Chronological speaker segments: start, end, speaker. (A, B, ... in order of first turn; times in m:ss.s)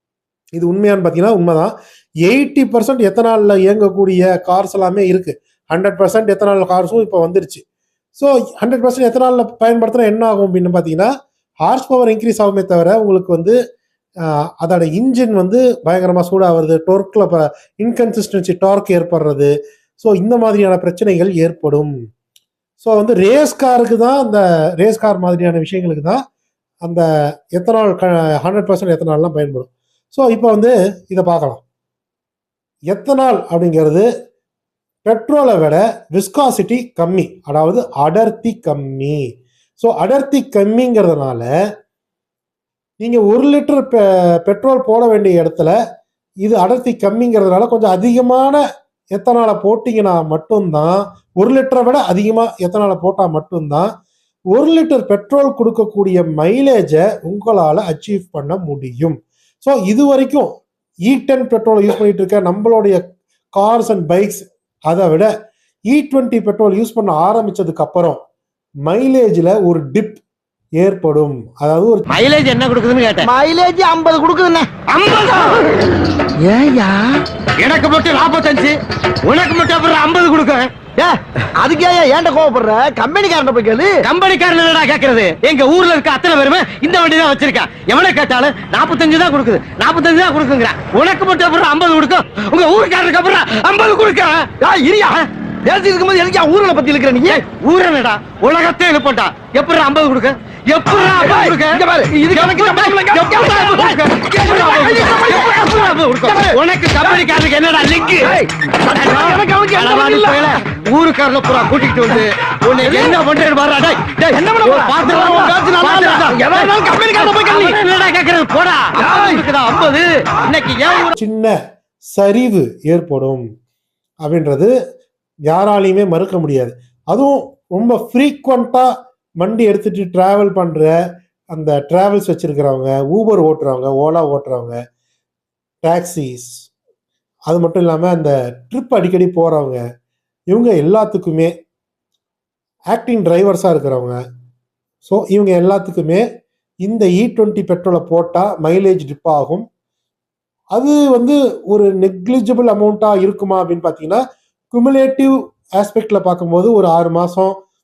0:00.6-0:01.7 A
0:02.2-0:07.6 A
0:08.2-0:11.1 A
0:11.6-0:13.6 A
0:14.6-0:21.9 A
0:22.8-0:26.2 A
0:26.8-0:31.6 A
0:32.9-0:34.1 A
0:35.0-0:39.2 A
0:39.8-0:41.5 A
0:43.0-0:45.7 A
0:46.4-0:48.6 A
0:49.1-0:53.9 A
0:54.5-1:00.5 A
1:01.1-1:03.0 A
1:03.6-1:05.3 A
1:05.9-1:08.2 A
1:08.9-1:10.2 A
1:10.8-1:12.0 A
1:12.1-1:13.3 B
1:13.2-1:14.7 C
1:14.9-1:15.6 B
1:16.4-1:17.1 C
1:17.6-1:20.7 B
1:21.0-1:24.0 C
1:24.0-1:34.5 B
1:34.6-1:37.4 C
1:37.2-1:48.4 B
1:41.0-1:47.2 C
1:48.2-1:50.6 C
1:48.9-2:01.1 B
1:52.8-1:53.2 C
1:54.3-1:57.8 C
1:59.0-1:59.4 C
2:01.2-2:01.5 A
2:02.1-2:03.4 A
2:04.2-2:04.7 A
2:05.5-2:08.9 A
2:09.4-2:10.9 A
2:11.5-2:14.8 A
2:15.8-2:16.5 A
2:17.5-2:19.8 A
2:20.5-2:21.5 A
2:22.9-2:24.2 A
2:25.0-2:26.2 A
2:26.8-2:29.6 A
2:30.7-2:37.6 A